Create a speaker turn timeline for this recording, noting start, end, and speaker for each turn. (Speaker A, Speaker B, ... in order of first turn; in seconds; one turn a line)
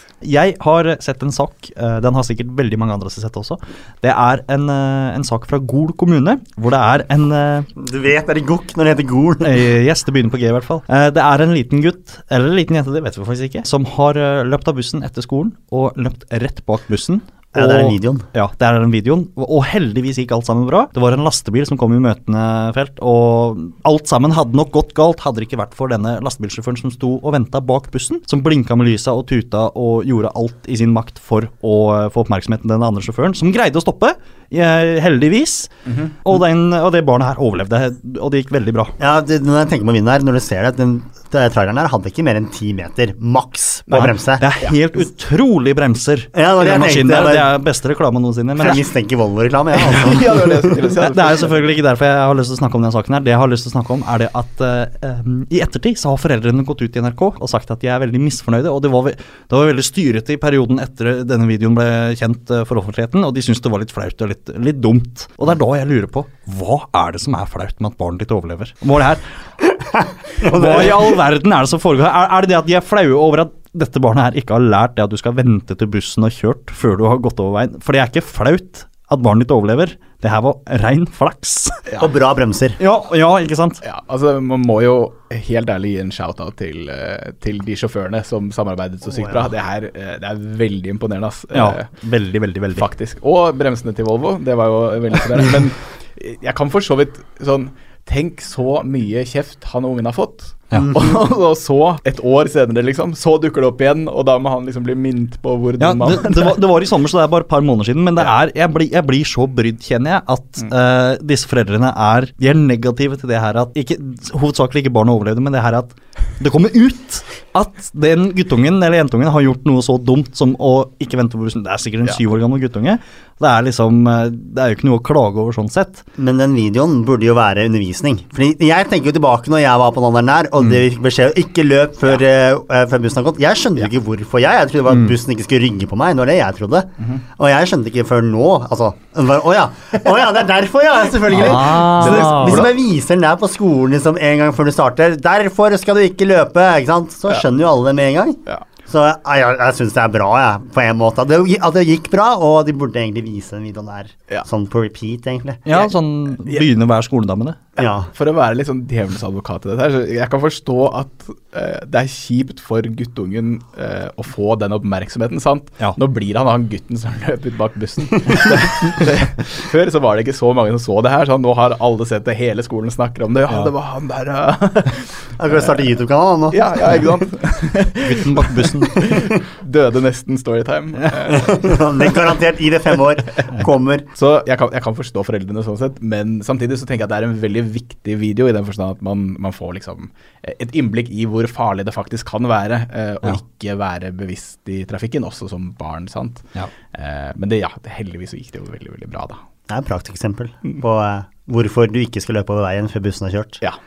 Speaker A: 0.2-7.7
Speaker B: 7.8-9.6
Speaker A: 9.4-35.7
Speaker B: 17.5-18.3
Speaker A: 36.2-39.0
Speaker B: 39.0-44.5
Speaker A: 43.9-48.8
Speaker B: 46.3-47.5
Speaker B: 48.6-50.8
Speaker C: 49.8-51.7
Speaker A: 51.0-69.2
Speaker B: 70.4-71.0
Speaker A: 70.4-81.8
Speaker B: 82.0-82.8
Speaker A: 82.8-83.8
Speaker C: 83.8-91.9
Speaker B: 89.1-89.5
Speaker A: 91.5-92.9
Speaker C: 92.8-106.6
Speaker A: 105.8-126.0
Speaker B: 126.2-155.6
Speaker A: 134.9-135.2
Speaker A: 141.3-142.7
Speaker C: 141.6-142.7
Speaker A: 155.7-157.6
Speaker C: 157.8-175.1
Speaker B: 157.8-158.1
Speaker B: 175.4-176.8
Speaker C: 176.5-181.8
Speaker A: 178.0-179.1
Speaker B: 181.3-184.1
Speaker C: 184.2-199.4
Speaker B: 199.7-203.6